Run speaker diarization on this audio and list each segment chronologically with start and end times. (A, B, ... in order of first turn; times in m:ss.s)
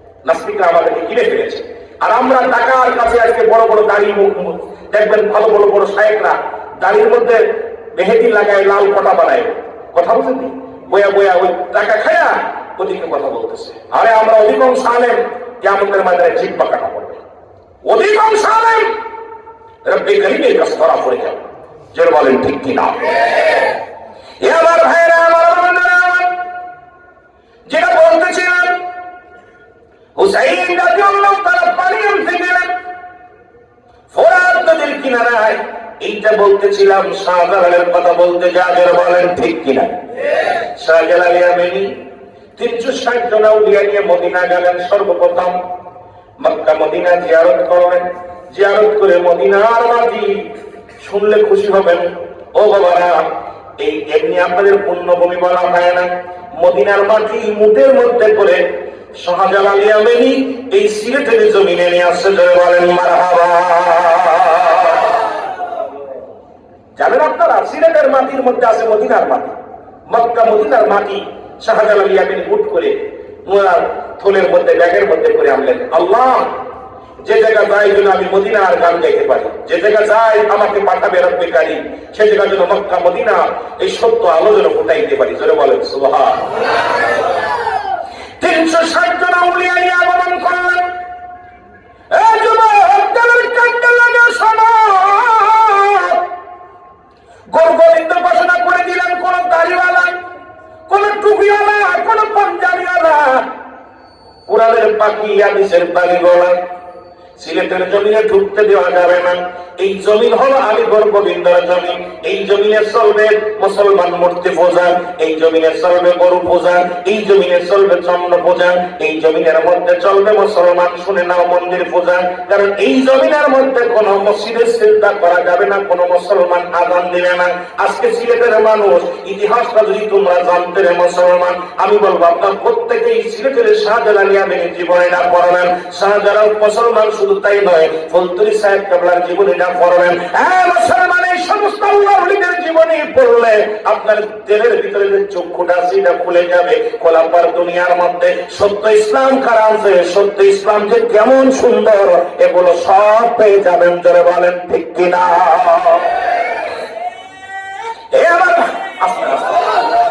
0:00.2-0:17.2 A
0:17.8-0:18.9 A
0:19.8-0:23.1 A
0:24.4-0:26.4 A
0:27.7-0:28.8 A
0:30.2-0:32.7 A
0:34.1-0:40.0 A
0:40.6-0:41.9 A
0:42.6-0:45.6 A
0:46.4-0:50.5 A
0:51.0-0:56.1 A
0:56.6-0:58.6 A
0:59.2-1:05.2 A
1:07.0-1:09.6 A
1:10.1-1:16.6 A
1:17.2-1:26.5 A
1:28.4-1:30.9 A
1:32.1-1:36.2 A
1:37.5-1:40.2 A
1:40.9-1:43.5 A
1:44.5-1:46.6 A
1:47.4-2:36.2 A
2:38.1-2:39.8 A